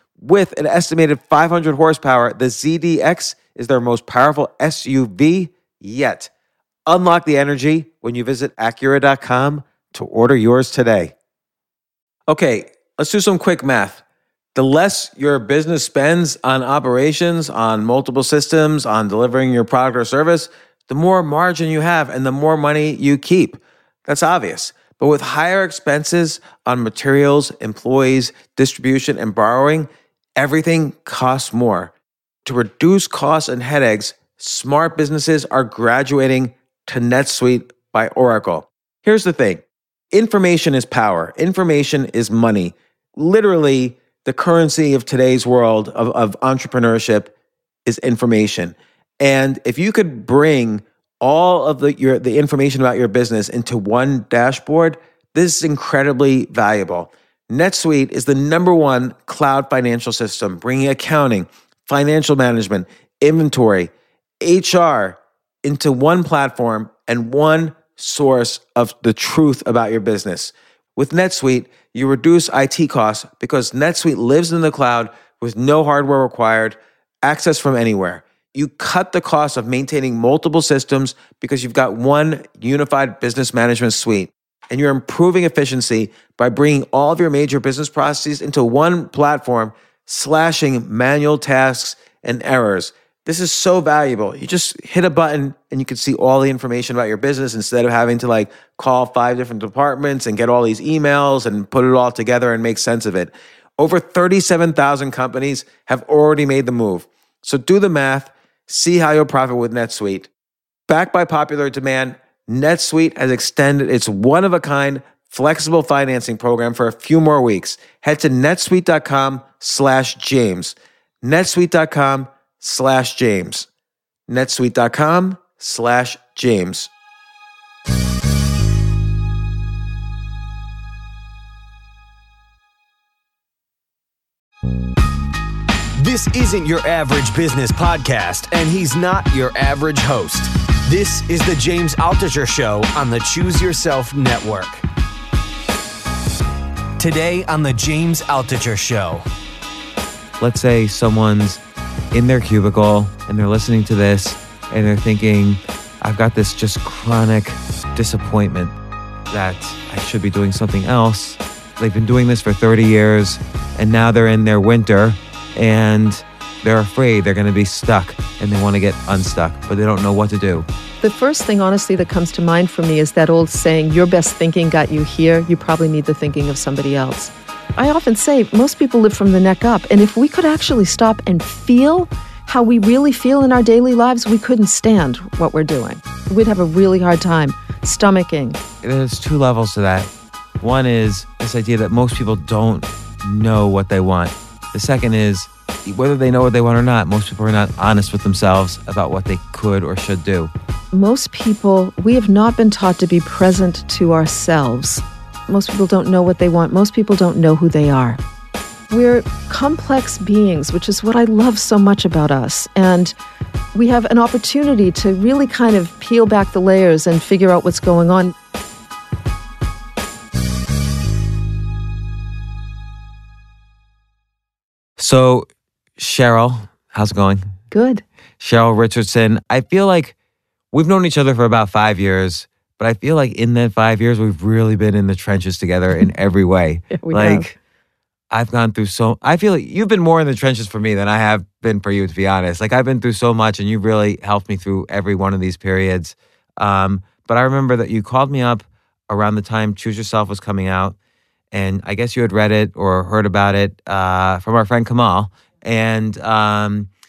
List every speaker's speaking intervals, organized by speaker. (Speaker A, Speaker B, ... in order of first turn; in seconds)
Speaker A: 0.2-6.3, 6.9-11.1, 12.3-14.0, 14.6-31.9, 32.5-39.6, 40.1-47.3, 47.9-110.3, 110.9-123.7, 124.3-126.9, 150.4-151.6, 152.1-158.7, 159.3-170.7, 188.8-190.1, 190.6-200.5, 225.0-227.5, 228.4-230.2, 230.7-237.6, 238.3-251.0, 251.5-256.9
Speaker B: 136.0-144.8, 147.0-149.2
Speaker C: 171.0-188.6, 200.9-208.2, 208.9-213.2, 213.7-218.3, 227.7-228.0, 236.9-237.5